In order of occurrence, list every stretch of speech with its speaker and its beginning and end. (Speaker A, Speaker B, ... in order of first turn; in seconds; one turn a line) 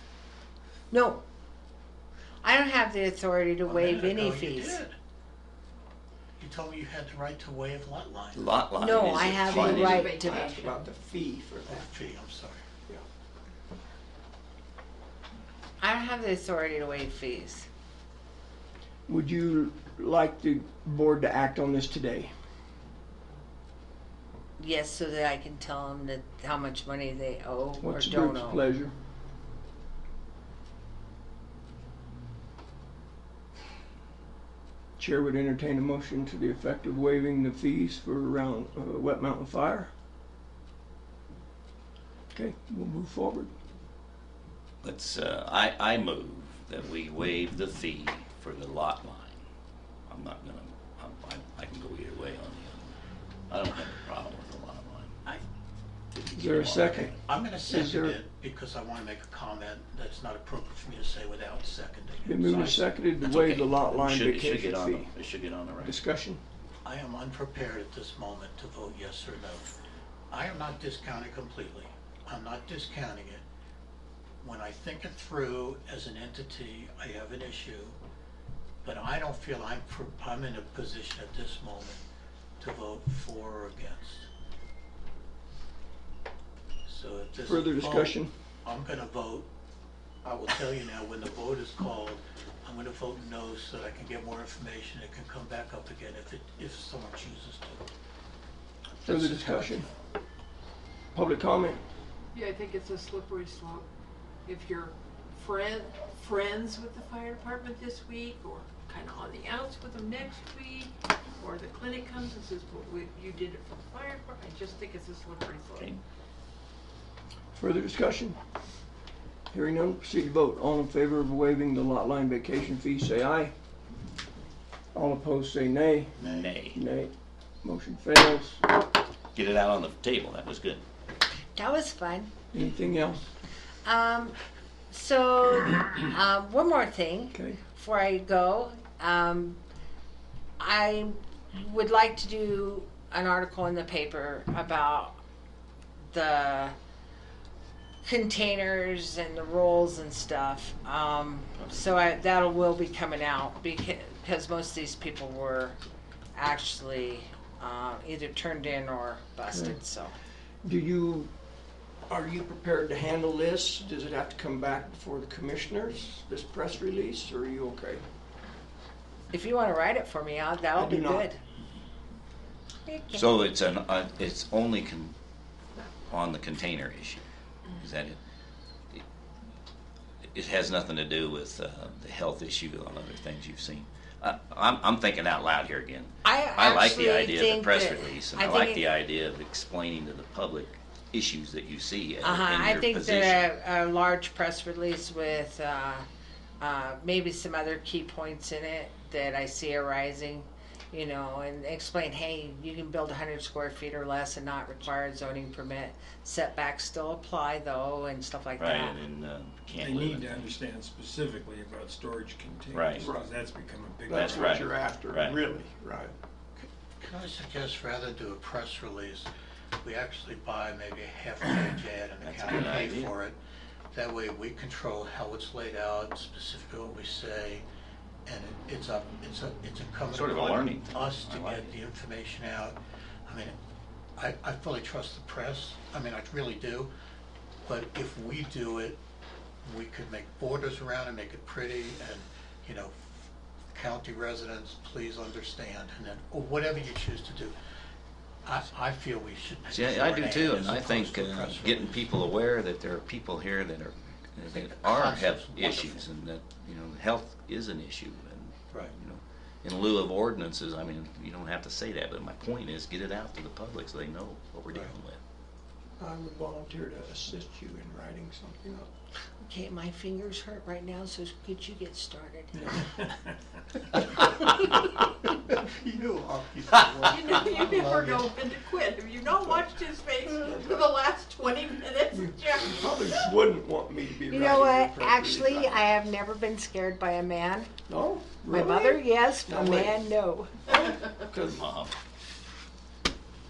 Speaker A: 0.9-1.2
Speaker A: 2.4-4.8
Speaker B: 3.7-5.0
Speaker B: 6.4-9.4
Speaker C: 8.3-10.2
Speaker A: 8.8-10.5
Speaker D: 9.4-11.9
Speaker E: 9.5-10.9
Speaker B: 11.7-12.6
Speaker A: 15.8-17.7
Speaker D: 19.1-22.3
Speaker A: 24.6-28.6
Speaker D: 27.8-28.9
Speaker D: 35.0-39.9
Speaker D: 42.3-43.5
Speaker C: 44.8-49.4
Speaker C: 50.1-53.0
Speaker C: 53.5-55.1
Speaker C: 56.1-57.1
Speaker D: 56.3-57.1
Speaker B: 57.0-62.8
Speaker D: 57.7-58.2
Speaker D: 62.2-65.1
Speaker C: 62.5-66.0
Speaker D: 65.8-66.4
Speaker B: 66.8-69.7
Speaker B: 70.3-73.4
Speaker B: 74.4-78.0
Speaker B: 78.8-82.0
Speaker B: 82.6-84.3
Speaker B: 86.9-89.5
Speaker D: 87.5-88.3
Speaker B: 90.2-97.8
Speaker B: 99.0-99.8
Speaker D: 99.0-99.9
Speaker D: 101.1-101.8
Speaker E: 102.3-103.9
Speaker E: 104.5-116.0
Speaker D: 117.5-118.4
Speaker D: 119.5-123.5
Speaker D: 124.9-126.2
Speaker C: 126.2-126.8
Speaker B: 126.2-126.5
Speaker D: 126.7-128.7
Speaker C: 129.3-130.8
Speaker A: 131.6-132.3
Speaker D: 132.5-133.2
Speaker A: 133.8-134.4
Speaker A: 134.9-139.6
Speaker D: 137.3-137.6
Speaker A: 140.6-145.2
Speaker A: 146.1-146.8
Speaker A: 148.0-155.8
Speaker A: 156.3-160.1
Speaker D: 159.5-159.8
Speaker D: 160.6-161.3
Speaker D: 162.1-168.1
Speaker A: 169.3-171.4
Speaker D: 170.8-171.3
Speaker A: 172.9-173.3
Speaker C: 173.1-175.1
Speaker C: 176.1-177.2
Speaker C: 177.8-178.2
Speaker C: 180.3-193.4
Speaker A: 186.2-188.9
Speaker A: 192.2-196.1
Speaker A: 196.6-209.0
Speaker C: 208.6-210.6
Speaker F: 209.7-214.7
Speaker C: 212.7-213.1
Speaker D: 213.0-213.3
Speaker D: 214.1-216.1
Speaker C: 214.1-215.4
Speaker B: 216.6-219.3
Speaker B: 219.8-223.4
Speaker C: 222.2-223.1
Speaker B: 223.9-227.7
Speaker B: 228.3-232.8
Speaker C: 230.1-231.7
Speaker B: 233.3-233.6
Speaker B: 234.2-236.9
Speaker B: 237.7-239.0
Speaker B: 239.6-243.1
Speaker B: 243.7-247.6
Speaker B: 248.4-252.0
Speaker C: 249.7-265.2
Speaker B: 254.5-256.1
Speaker D: 266.0-268.9
Speaker A: 269.4-272.6
Speaker B: 275.5-278.3
Speaker E: 277.1-283.3
Speaker D: 280.5-280.8
Speaker D: 282.1-285.8
Speaker A: 284.3-287.7
Speaker D: 287.9-290.0
Speaker A: 288.5-290.6
Speaker D: 291.1-291.6
Speaker C: 291.4-291.9